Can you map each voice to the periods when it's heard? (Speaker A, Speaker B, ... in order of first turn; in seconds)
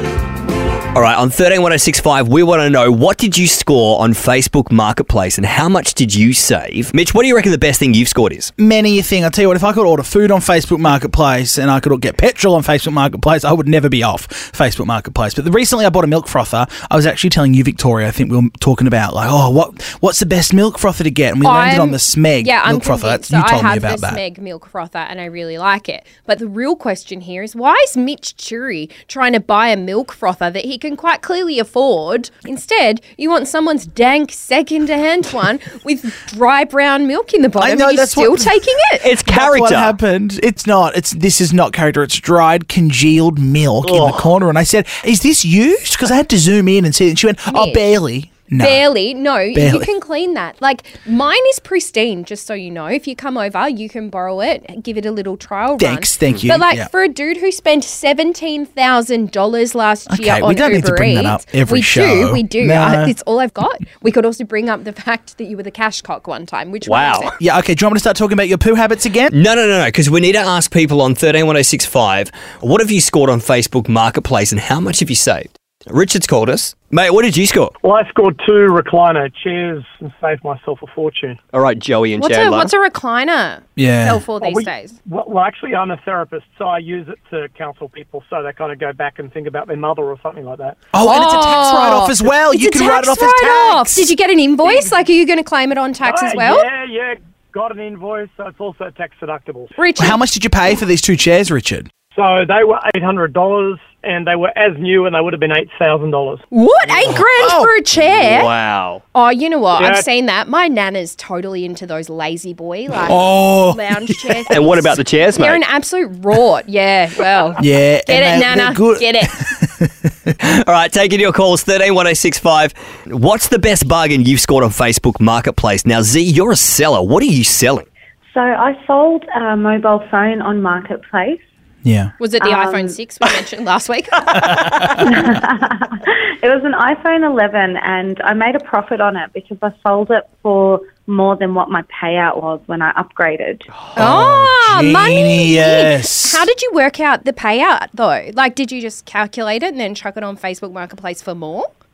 Speaker A: 0.9-8.5, 39.0-40.0, 43.8-44.3, 66.8-67.3, 69.3-77.7, 81.5-82.7, 108.0-109.0, 114.5-115.6, 120.4-127.9
Speaker B: 8.6-24.2, 37.6-48.9, 49.5-49.9, 55.8-56.9, 60.1-63.1, 67.4-69.3, 83.8-84.2, 90.9-94.1, 100.0-101.9, 107.4-107.7, 113.1-114.4, 117.6-120.3, 131.8-132.1, 134.4-134.9, 143.9-146.4
Speaker C: 21.4-39.1, 47.5-48.0, 48.6-67.4, 82.2-85.0, 91.0-96.7, 99.8-100.2, 106.5-108.5, 109.1-119.6, 132.2-134.5, 143.9-151.7
Speaker D: 77.8-81.4, 84.3-90.9, 94.6-94.9, 96.0-100.2, 102.1-106.4, 109.8-110.0
Speaker E: 128.3-131.4, 132.4-132.9, 134.9-143.7